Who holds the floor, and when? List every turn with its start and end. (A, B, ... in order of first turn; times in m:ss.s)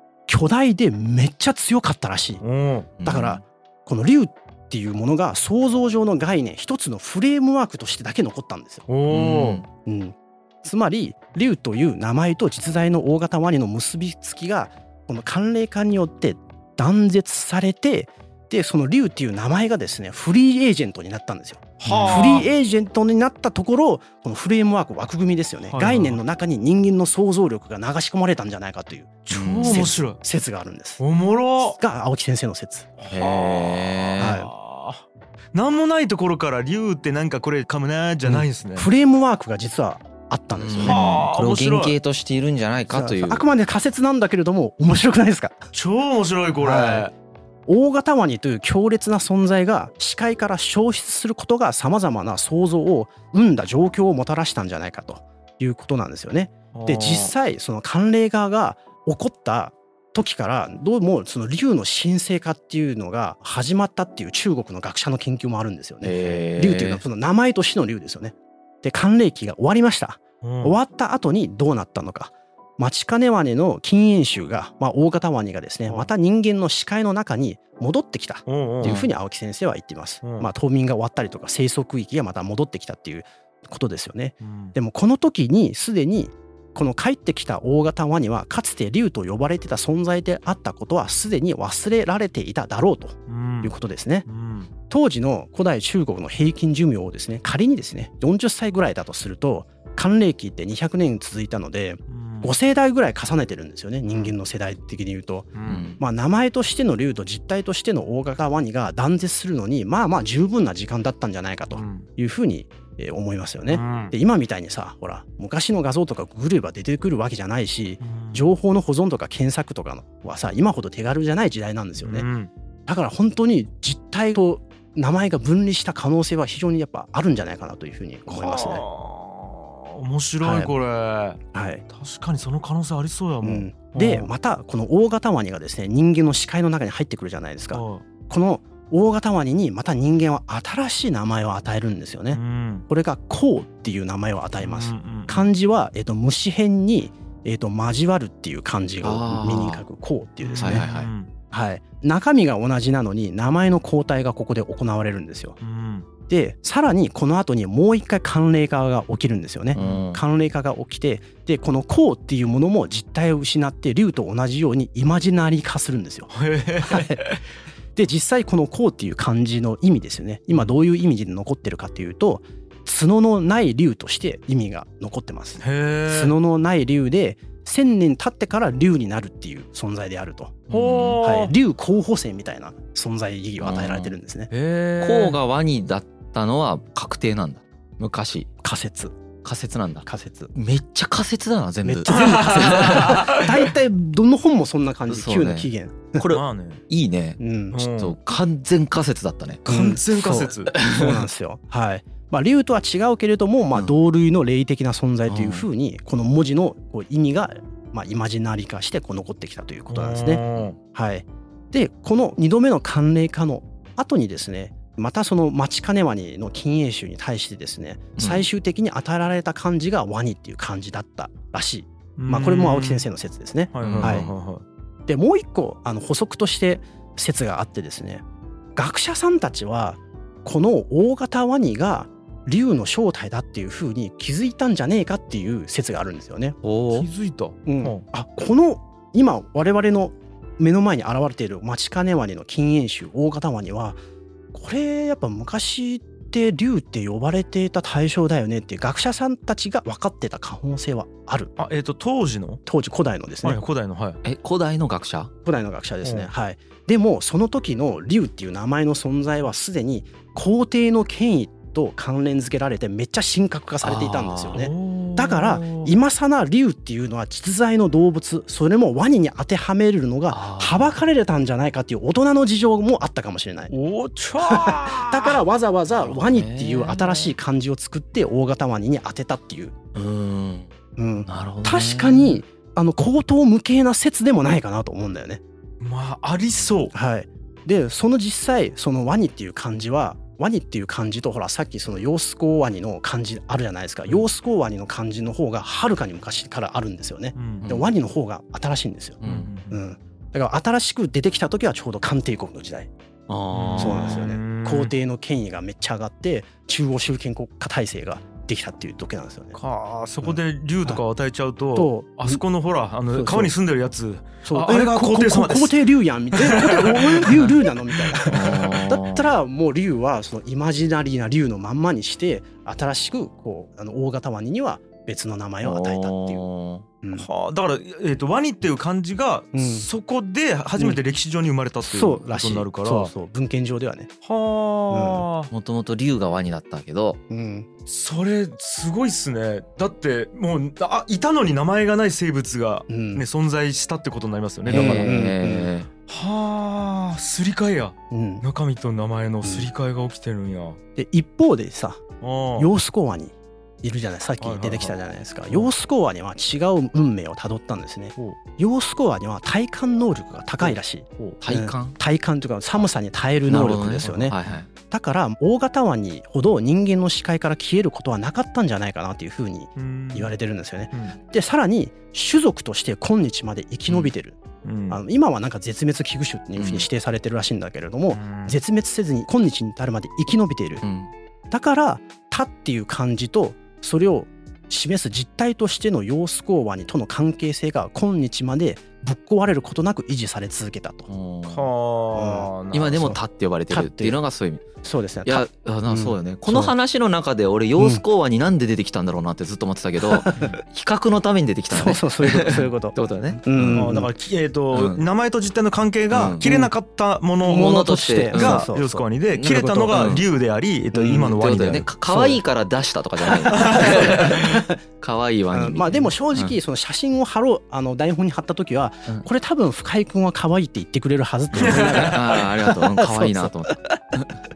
0:00.3-0:02.4 A
0:02.4-0:02.9 B
0:03.0-0:03.4 C
0:03.0-0:08.9 A
0:08.9-0:09.6 B
0:09.1-0:09.6 C
0:09.8-0:31.0 A
0:21.8-0:22.5 B
0:21.8-0:22.4 C
0:25.7-0:26.2 B
0:29.3-0:30.2 B
0:29.3-0:29.9 C
0:31.0-0:31.8 B
0:31.6-0:32.9 A
0:33.0-0:35.0 B
0:33.1-0:34.4 C
0:34.2-0:34.5 A
0:35.5-0:38.9 B
0:38.2-0:41.1 A
0:40.6-0:43.4 C
0:40.8-0:42.0 B
0:42.9-0:45.7 A
0:45.7-0:47.1 B
0:46.6-0:47.1 A
0:47.7-1:34.3 A
0:56.7-0:57.3 B
1:06.0-1:07.0 C
1:10.4-1:10.8 B
1:18.4-1:19.0 B
1:18.8-1:19.1 C
1:20.2-1:20.5 B
1:24.4-1:24.8 B
1:33.3-1:33.8 B
1:34.3-1:34.7 B
1:34.9-2:02.3 A
1:42.1-1:42.6 B
1:45.6-1:45.9 B
1:45.7-1:46.0 C
1:51.7-1:52.1 B
1:53.7-1:54.1 B
1:58.0-1:58.4 B
2:02.0-2:02.5 B
2:02.9-2:08.8 A
2:08.3-2:14.3 B
2:10.4-2:10.7 A
2:11.5-2:11.8 A
2:13.4-2:30.9 A
2:17.7-2:18.0 B
2:22.3-2:22.9 B
2:24.6-2:25.5 B
2:29.0-2:29.9 C
2:30.4-2:31.3 B
2:30.6-2:31.1 C
2:31.5-2:35.6 A
2:35.6-2:36.1 B
2:36.3-2:47.2 A
2:39.7-2:40.2 C
2:39.8-2:40.0 B
2:46.3-2:47.4 B
2:47.9-3:00.7 A
2:55.6-2:56.3 B
3:00.7-3:01.2 C
3:00.7-3:01.5 B
3:01.2-3:04.5 A
3:03.6-3:04.1 C
3:04.5-3:05.4 B
3:05.0-3:08.5 C
3:08.6-3:09.2 A
3:09.4-3:13.3 C
3:10.0-3:10.5 A
3:11.8-3:16.3 A
3:12.1-3:13.5 B
3:15.1-3:19.6 C
3:16.3-3:16.8 B
3:17.4-3:17.8 A
3:17.7-3:18.2 B
3:19.6-3:44.3 A
3:19.7-3:20.8 B
3:20.7-3:21.2 C
3:25.3-3:25.7 C
3:29.9-3:30.8 B
3:38.2-3:38.4 C
3:42.2-3:43.1 B
3:43.7-3:44.6 B
3:43.8-3:44.3 C
3:45.1-3:48.2 A
3:48.8-3:56.6 A
3:56.6-3:57.1 C
3:56.9-3:58.0 B
3:57.6-4:04.0 A
4:04.5-4:11.5 A
4:11.6-4:12.6 B
4:12.6-4:13.6 A
4:13.4-4:14.2 B
4:14.2-4:15.3 C
4:15.4-4:33.7 A
4:16.0-4:16.3 B
4:23.8-4:24.7 C
4:24.5-4:25.9 B
4:30.3-4:31.0 C
4:33.7-4:35.4 B
4:34.4-4:39.7 A
4:36.0-4:37.4 C
4:39.9-4:40.7 C
4:41.0-4:45.4 A
4:41.3-4:42.4 C
4:45.8-4:46.9 B
4:46.9-5:02.9 A
4:57.4-4:57.7 B
4:57.6-4:57.9 C
4:59.2-4:59.5 C
4:59.2-4:59.8 B
5:03.3-5:04.3 C
5:03.5-5:04.9 B
5:03.8-5:09.6 A
5:09.6-5:17.5 B
5:10.2-5:11.0 A
5:11.8-5:12.4 A
5:13.1-5:13.5 A
5:14.4-5:26.4 A
5:18.3-5:19.3 C
5:25.6-5:26.8 C
5:27.0-5:27.3 A
5:27.2-5:33.1 B
5:29.5-5:29.9 A
5:31.8-5:34.1 A
5:34.2-5:35.5 B
5:34.9-5:35.2 A
5:35.5-5:37.2 C
5:37.3-5:37.7 A
5:37.9-5:45.2 B
5:42.9-5:43.2 A
5:44.6-5:45.9 C
5:44.7-5:45.7 A
5:46.1-5:50.8 B
5:48.1-5:48.4 A
5:49.4-5:49.7 A
5:51.0-5:52.0 A
5:52.2-5:52.7 B
5:52.6-6:04.4 A
5:54.4-5:55.0 B
6:00.6-6:01.4 B
6:01.4-6:02.0 C
6:03.5-6:04.7 C
6:04.9-6:14.4 A
6:09.8-6:10.3 B
6:10.9-6:11.2 B
6:14.6-6:15.0 B
6:14.9-6:20.8 A
6:16.6-6:16.9 C
6:18.1-6:18.6 B
6:20.8-6:21.1 C
6:21.5-6:31.1 A
6:31.1-6:31.7 C
6:31.5-6:33.1 B
6:32.1-6:34.2 A
6:32.7-6:34.6 C
6:34.8-6:36.7 A
6:35.2-6:43.9 C
6:37.8-6:38.0 A
6:40.1-6:40.6 A
6:41.7-6:44.1 A
6:43.7-6:51.9 B
6:44.7-6:45.0 C
6:46.1-6:46.4 C
6:46.4-6:46.7 A
6:47.4-6:49.1 A
6:47.5-6:48.7 C
6:49.4-6:50.3 C
6:50.9-6:56.6 C
6:52.1-6:52.4 A
6:53.5-6:54.4 B
6:53.5-6:54.8 A
6:55.5-7:03.7 A
7:01.5-7:02.3 B
7:01.6-7:04.4 C